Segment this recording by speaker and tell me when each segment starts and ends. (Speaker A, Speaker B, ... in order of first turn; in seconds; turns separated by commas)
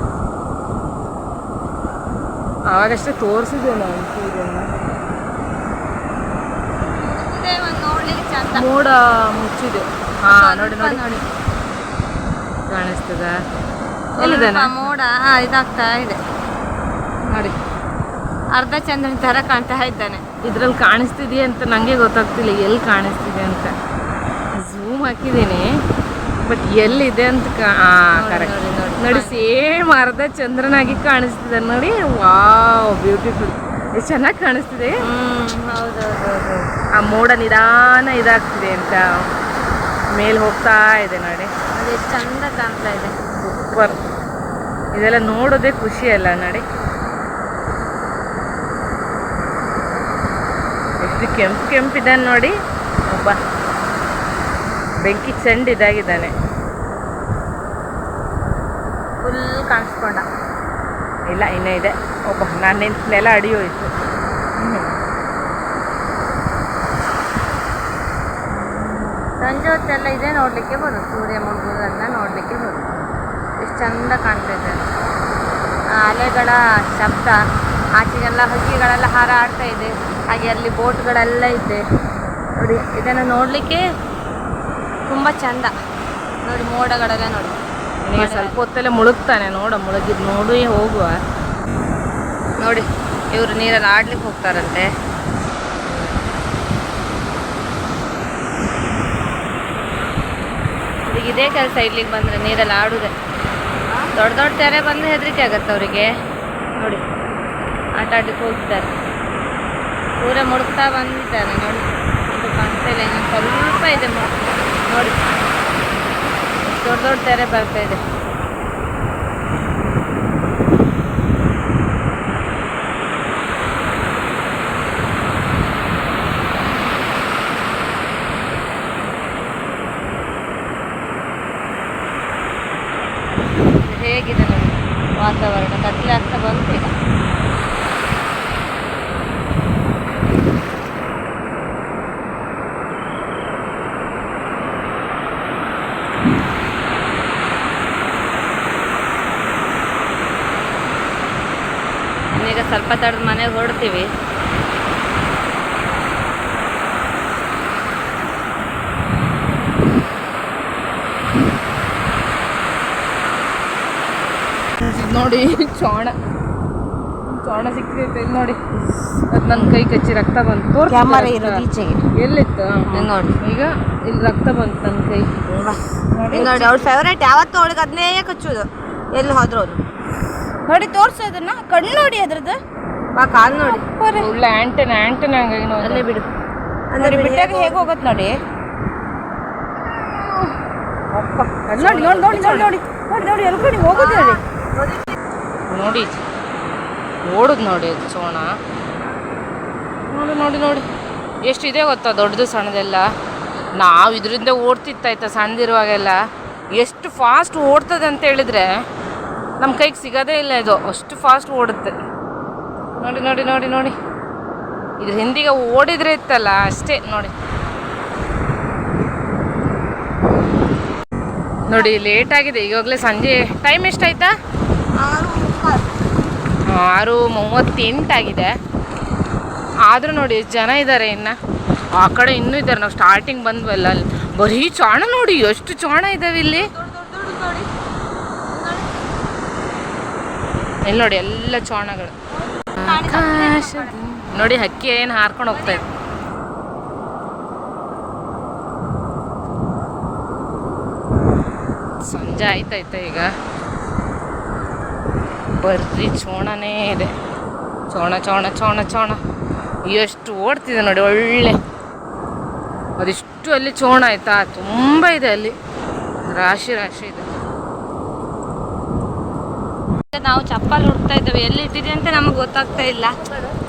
Speaker A: 2.7-4.7, Speaker B: 7.0-8.7, Speaker A: 8.5-11.0, Speaker B: 10.3-11.3, Speaker A: 12.7-13.4, Speaker A: 14.2-14.9, Speaker B: 14.2-16.2, Speaker B: 18.5-20.2, Speaker A: 20.4-23.8, Speaker A: 24.5-25.8, Speaker A: 26.4-35.0, Speaker B: 28.2-29.5, Speaker B: 35.0-36.3, Speaker A: 36.2-39.3, Speaker A: 40.1-41.5, Speaker B: 41.8-43.2, Speaker A: 43.4-44.0, Speaker A: 44.9-46.6, Speaker A: 51.0-53.4, Speaker A: 55.0-56.3, Speaker B: 59.2-60.2, Speaker A: 61.3-63.9, Speaker A: 64.6-65.0, Speaker B: 69.3-74.8, Speaker B: 75.9-77.4, Speaker B: 78.0-81.8, Speaker B: 82.6-83.8, Speaker B: 85.1-85.7, Speaker B: 86.4-87.6, Speaker A: 88.0-91.2, Speaker B: 88.1-88.6, Speaker B: 92.6-94.9, Speaker B: 101.1-103.1, Speaker B: 104.1-106.1, Speaker B: 106.8-107.0, Speaker B: 108.0-108.9, Speaker B: 110.2-115.2, Speaker B: 116.6-118.0, Speaker B: 133.6-136.9, Speaker B: 152.3-154.1, Speaker A: 164.8-166.2, Speaker A: 167.3-175.5, Speaker C: 170.9-172.1, Speaker B: 172.9-173.4, Speaker C: 176.2-176.8, Speaker A: 176.2-176.8, Speaker B: 176.3-179.8, Speaker C: 180.7-182.6, Speaker B: 183.2-183.8, Speaker C: 183.5-184.3, Speaker A: 184.1-186.1, Speaker B: 185.8-186.3, Speaker B: 186.9-187.9, Speaker C: 187.0-188.4, Speaker C: 191.1-194.4, Speaker A: 191.6-192.7, Speaker B: 193.9-195.0, Speaker A: 195.7-196.2, Speaker A: 197.3-198.6, Speaker A: 200.1-200.9, Speaker A: 201.4-203.1, Speaker A: 203.8-206.2, Speaker A: 206.7-208.7, Speaker A: 209.6-211.9, Speaker A: 213.0-214.0, Speaker A: 215.0-217.3, Speaker A: 221.7-224.3, Speaker B: 225.0-225.8, Speaker A: 226.7-228.6, Speaker A: 229.9-231.4, Speaker A: 231.9-236.7, Speaker B: 236.8-237.6, Speaker A: 240.8-242.1, Speaker B: 242.7-243.9, Speaker A: 242.8-245.8, Speaker B: 245.5-245.8, Speaker A: 252.0-253.3, Speaker A: 255.6-257.1, Speaker A: 257.9-259.2, Speaker A: 259.9-261.6, Speaker A: 263.0-265.6, Speaker A: 266.2-267.3, Speaker B: 270.1-273.2